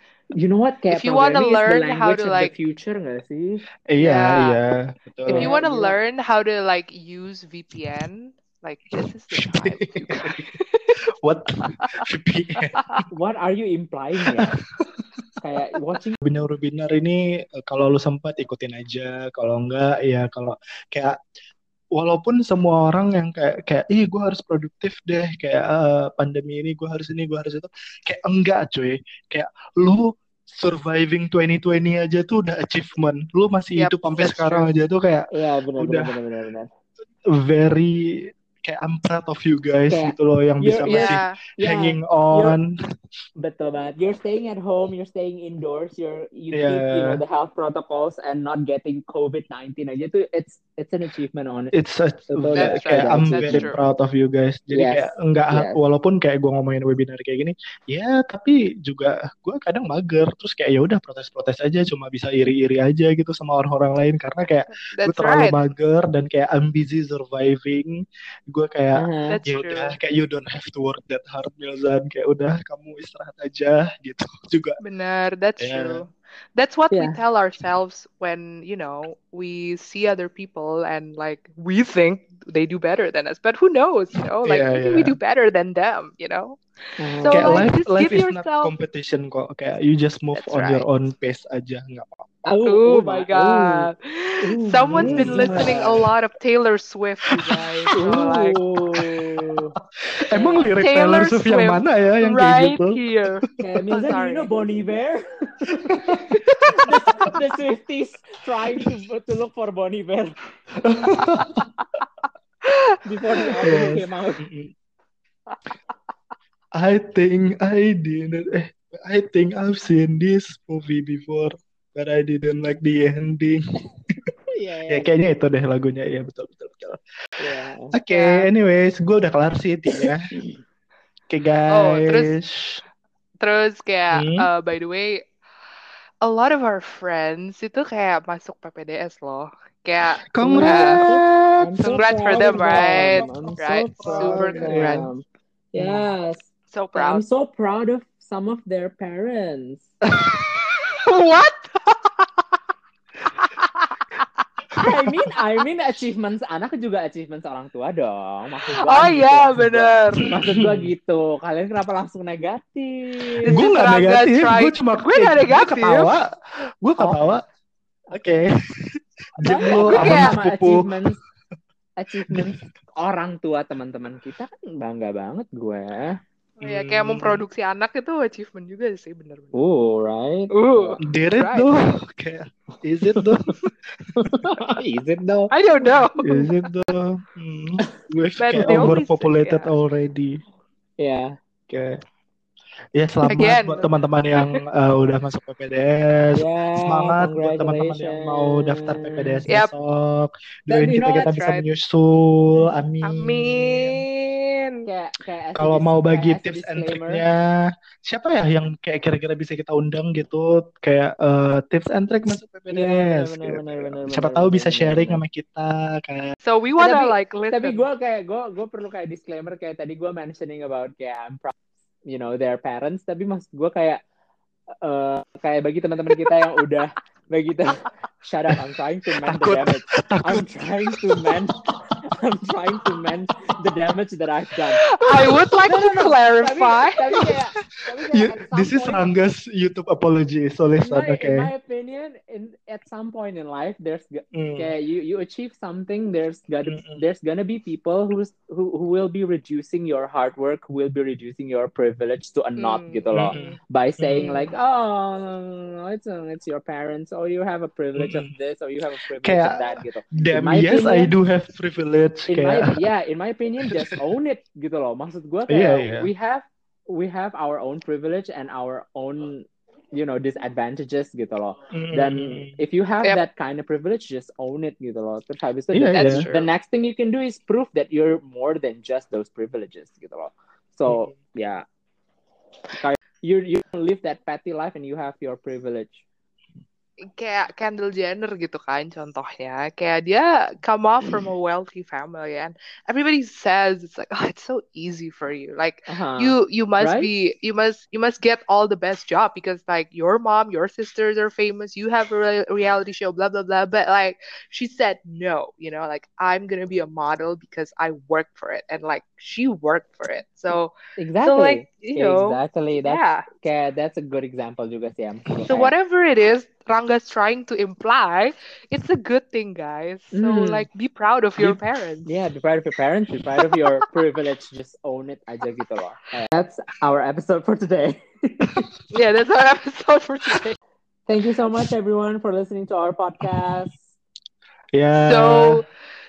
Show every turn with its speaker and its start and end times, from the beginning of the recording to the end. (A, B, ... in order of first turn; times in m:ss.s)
0:00.3-0:03.6 A
0:00.9-0:02.5 B
0:03.9-0:05.5 C
0:04.0-0:04.6 B
0:05.3-0:11.0 B
0:05.3-0:06.0 A
0:09.4-0:10.4 C
0:11.2-0:13.0 C
0:11.7-0:12.0 B
0:13.1-0:14.5 A
0:14.5-0:14.9 C
0:15.4-0:16.2 A
0:16.2-0:21.2 C
0:22.0-0:36.2 C
0:33.8-0:34.7 B
0:35.3-0:36.7 A
0:37.3-0:42.7 C
0:39.9-0:42.6 A
0:40.9-0:41.4 B
0:43.4-0:51.7 A
0:46.5-0:47.2 C
0:51.7-1:08.0 C
0:52.3-0:53.7 A
0:52.6-0:53.8 B
0:54.7-0:55.8 A
1:04.9-1:05.6 B
1:08.5-1:14.8 C
1:09.0-1:09.4 A
1:09.3-1:10.0 B
1:14.8-1:26.6 B
1:15.6-1:16.0 C
1:16.9-1:17.2 A
1:24.4-1:25.2 C
1:27.0-1:27.7 A
1:27.2-1:28.7 B
1:27.3-1:32.2 C
1:30.4-1:30.9 B
1:32.4-1:33.9 A
1:32.6-1:38.6 B
1:34.4-1:36.1 A
1:35.0-1:35.9 C
1:37.4-1:37.6 C
1:37.9-1:39.8 A
1:39.0-1:39.4 C
1:40.1-1:43.0 C
1:40.3-1:40.7 A
1:40.8-1:44.5 B
1:43.6-1:46.0 A
1:45.7-1:47.3 C
1:46.7-1:50.4 A
1:50.8-1:51.6 C
1:52.6-1:53.0 B
1:53.0-1:54.4 A
1:53.6-1:54.7 C
1:56.8-2:03.6 C
2:04.5-2:05.1 A
2:04.9-2:07.0 C
2:07.4-2:08.0 A
2:07.5-2:10.3 C
2:08.1-2:08.5 B
2:09.9-2:10.6 A
2:11.3-2:12.8 C
2:11.7-2:12.3 B
2:13.4-2:15.2 B
2:14.1-2:14.5 C
2:16.2-2:21.0 B
2:20.3-2:21.7 C
2:20.4-2:29.9 A
2:21.8-2:25.1 B
2:22.6-2:23.4 C
2:24.0-2:25.1 C
2:25.8-2:26.1 C
2:26.7-2:27.2 B
2:30.9-2:32.1 B
2:33.4-2:33.8 B
2:34.8-2:43.6 A
2:38.8-2:40.4 B
2:40.4-2:40.9 C
2:43.4-2:46.1 B
2:43.5-2:47.4 C
2:47.0-2:47.4 A
2:48.1-2:48.4 A
2:48.1-2:51.2 C
2:49.4-2:51.2 A
2:49.7-2:50.4 B
2:52.0-2:56.2 A
2:56.6-2:59.5 B
2:56.6-2:57.4 C
2:59.6-3:01.0 A
3:00.5-3:01.7 B
3:01.0-3:04.5 C
3:03.2-3:03.5 A
3:04.2-3:05.5 A
3:05.5-3:06.7 B
3:06.2-3:10.4 C
3:08.4-3:09.7 B
3:08.6-3:09.0 A
3:11.0-3:11.4 A
3:11.7-3:12.0 C
3:13.0-3:24.0 C
3:13.3-3:14.6 B
3:16.4-3:19.5 A
3:20.7-3:21.2 A
3:20.9-3:21.6 B
3:23.0-3:24.8 B
3:24.9-3:27.2 A
3:25.6-3:36.4 C
3:32.7-3:35.2 A
3:36.4-3:37.8 B
3:36.8-3:41.5 A
3:42.1-3:44.0 A
3:44.8-3:54.9 A
3:49.2-3:51.3 C
3:54.9-3:57.4 B
3:55.6-3:59.0 A
3:58.1-4:01.5 C
4:00.8-4:21.1 A
4:04.3-4:04.7 C
4:06.7-4:07.0 C
4:12.6-4:13.6 B
4:13.1-4:14.4 C
4:18.0-4:18.3 C
4:19.2-4:22.8 C
4:22.3-4:41.6 A
4:25.5-4:26.1 C
4:31.7-4:32.6 C
4:35.7-4:36.3 C
4:36.0-4:36.5 B
4:40.9-4:41.1 C
4:42.8-4:46.0 A
4:47.0-5:13.3 B
4:55.9-4:57.1 A
5:11.0-5:15.7 A
5:15.5-5:22.1 B
5:20.1-5:20.7 A
5:21.4-5:28.7 A
5:28.9-5:30.6 B
5:31.1-5:33.9 A
5:34.7-5:35.6 C
5:35.0-5:35.7 B